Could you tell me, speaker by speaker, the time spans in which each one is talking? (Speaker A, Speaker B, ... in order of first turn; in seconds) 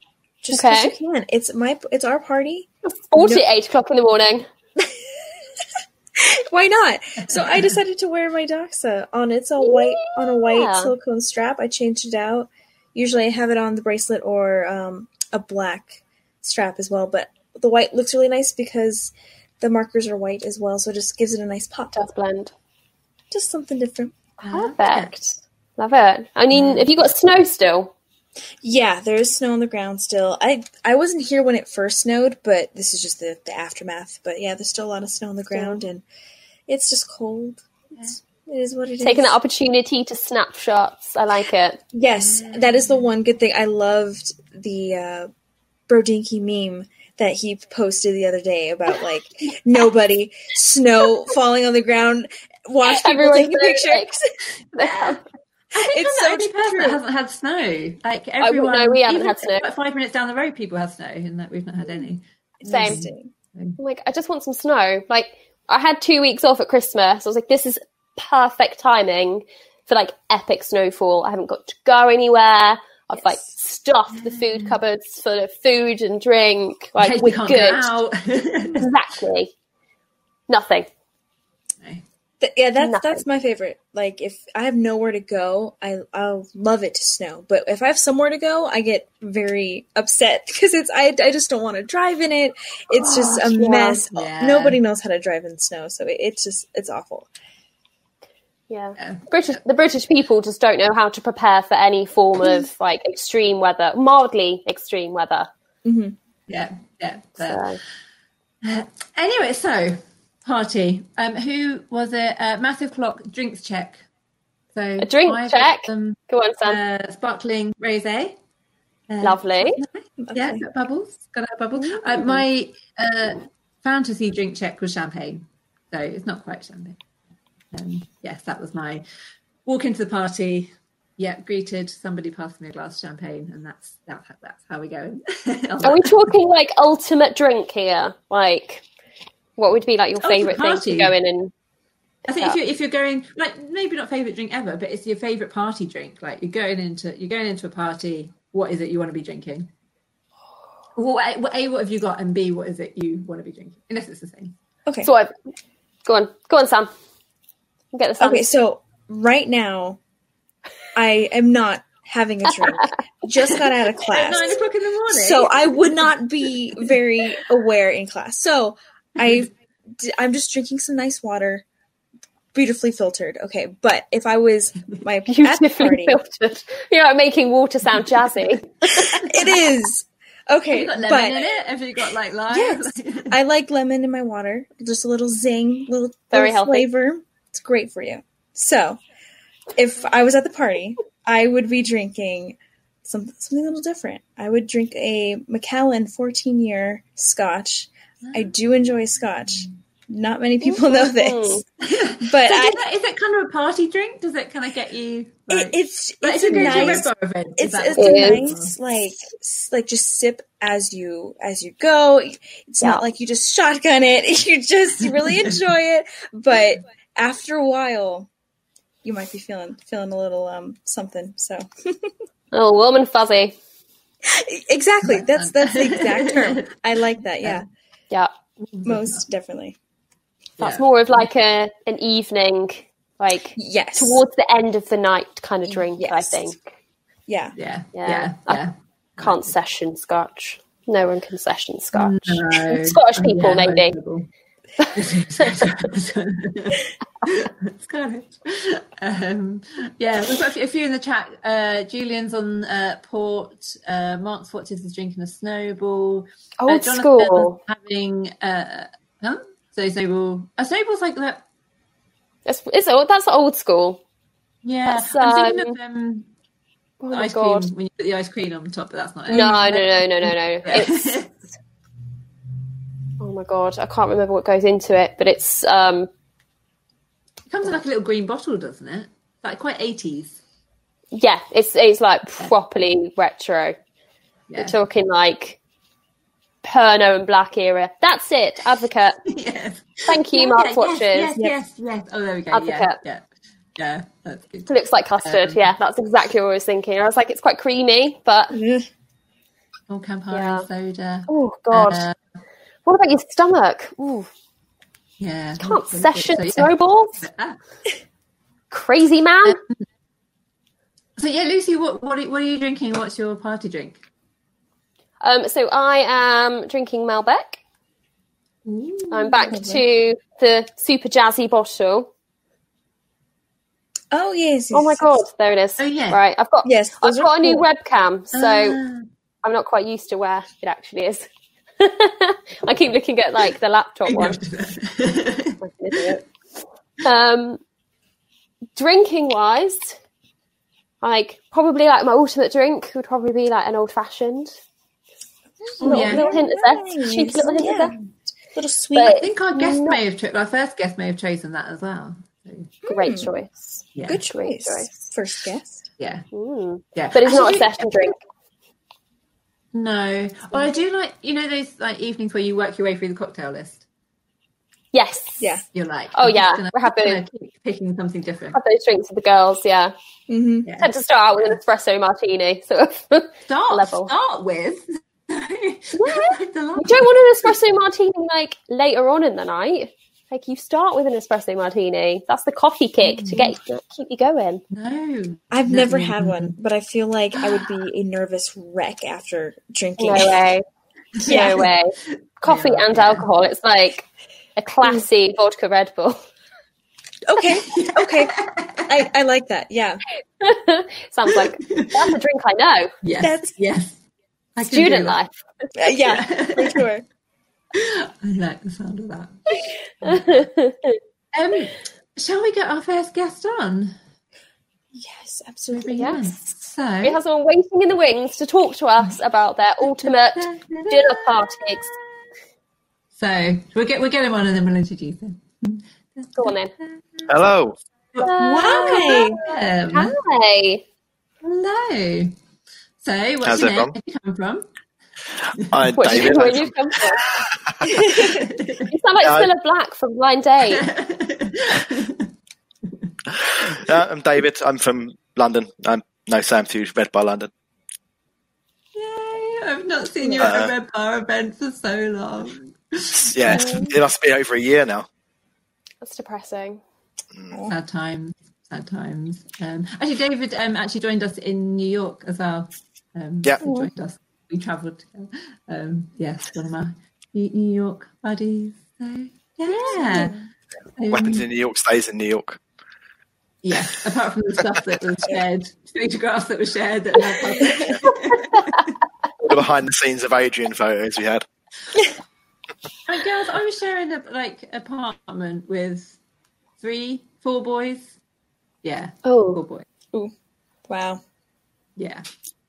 Speaker A: 0.4-3.4, 6.2-22.0, 23.3-24.1, 28.6-36.0, 36.7-39.4, 41.9-45.3, 45.9-54.3, 55.8-57.0, 62.6-63.3, 82.4-97.3, 105.8-106.1, 120.2-120.6, 158.2-160.0, 160.9-164.6, 165.1-171.6, 172.5-176.2, 178.9-181.4, 182.5-189.0, 189.7-201.6, 202.2-202.8, 205.5-218.3, 219.0-222.1, 224.2-227.6, 228.8-229.8, 233.6-234.2, 235.7-236.5, 237.3-237.5, 298.5-298.9, 319.5-319.8, 324.1-325.2, 326.6-327.6, 345.6-348.0, 348.5-349.3, 352.8-353.3, 354.1-355.9, 370.3-370.7, 385.5-390.3, 391.2-391.7, 397.3-400.0, 403.2-403.5, 405.8-407.0, 414.9-416.2, 428.4-429.4, 453.5-453.9, 463.6-463.9, 469.7-470.3, 490.9-491.2
Speaker B: 0.5-0.9, 2.9-4.5, 9.6-10.9, 21.9-22.5, 24.5-27.9, 35.5-35.8, 39.0-41.8, 52.8-54.2, 54.8-55.2, 58.4-59.6, 62.6-63.0, 63.8-77.8, 78.8-79.5, 80.5-80.9, 82.8-83.2, 93.0-94.0, 98.7-105.5, 107.4-107.8, 115.0-116.8, 119.2-119.8, 121.8-122.4, 135.8-138.8, 139.6-141.5, 155.0-155.3, 156.1-156.9, 157.9-158.5, 175.3-179.4, 186.3-186.9, 200.6-201.6, 206.5-207.0, 208.0-208.5, 222.5-223.5, 230.6-236.6, 237.9-238.6, 239.2-243.9, 244.8-245.7, 256.6-257.6, 262.4-264.0, 264.9-265.7, 267.0-267.7, 269.3-271.2, 273.2-276.1, 281.1-283.8, 284.6-285.6, 286.6-289.2, 290.1-291.3, 292.5-292.9, 294.7-298.5, 300.3-300.6, 301.3-302.0, 302.9-304.3, 305.6-307.2, 308.7-309.6, 315.2-317.6, 319.1-322.1, 324.7-328.8, 329.4-331.3, 331.8-334.4, 335.6-336.2, 337.0-337.6, 338.8-340.0, 341.0-344.6, 345.8-347.9, 348.9-350.0, 352.9-354.9, 356.3-358.2, 364.9-365.6, 366.1-367.2, 368.5-369.9, 370.8-374.1, 376.0-384.6, 390.0-390.6, 391.3-394.1, 394.6-396.2, 400.4-402.9, 404.7-405.3, 410.1-411.0, 415.9-416.3, 417.0-421.9, 426.4-426.7, 428.2-430.8, 435.9-437.3, 438.9-440.8, 456.0-456.8, 489.2-489.6
Speaker C: 24.4-25.1, 26.5-26.9, 42.2-43.0, 54.8-55.1, 55.7-63.8, 74.1-74.8, 77.0-78.9, 94.1-94.8, 99.0-99.2, 106.5-107.6, 108.6-114.0, 114.7-118.4, 119.1-127.0, 127.7-129.0, 129.6-136.3, 140.2-141.1, 142.2-149.7, 151.0-154.5, 164.1-165.7, 179.2-179.5, 180.7-183.3, 198.2-198.5, 201.8-208.7, 225.0-226.7, 228.6-229.2, 230.6-231.2, 237.5-239.5, 241.9-244.3, 244.9-261.4, 264.6-266.3, 267.1-271.4, 277.5-280.4, 284.5-284.8, 289.3-293.2, 293.8-295.7, 299.9-302.1, 305.2-307.6, 309.4-309.8, 311.2-314.0, 318.6-319.7, 325.8-326.2, 328.3-329.1, 334.1-336.1, 345.8-346.4, 349.1-352.7, 353.9-354.2, 356.0-356.2, 356.9-357.9, 359.7-363.8, 365.7-368.6, 370.6-370.9, 373.5-377.5, 383.0-383.6, 384.7-386.5, 391.2-391.7, 392.4-393.2, 397.6-398.9, 401.3-402.1, 403.0-404.0, 404.6-405.2, 406.0-406.8, 407.7-410.5, 411.3-414.0, 415.7-417.2, 419.8-422.0, 423.1-427.3, 428.1-430.1, 431.4-432.4, 433.0-434.7, 435.6-436.1, 438.0-438.9, 440.6-442.3, 448.9-453.9, 457.7-470.4, 471.0-471.4, 473.6-478.9, 483.1-486.2, 486.8-488.2, 488.8-489.9, 492.0-492.2
Speaker D: 427.3-427.8, 433.4-433.9, 435.7-437.8, 439.2-439.5, 443.6-447.5, 450.4-450.7, 453.1-455.1, 457.4-457.6, 471.1-472.6, 479.4-481.4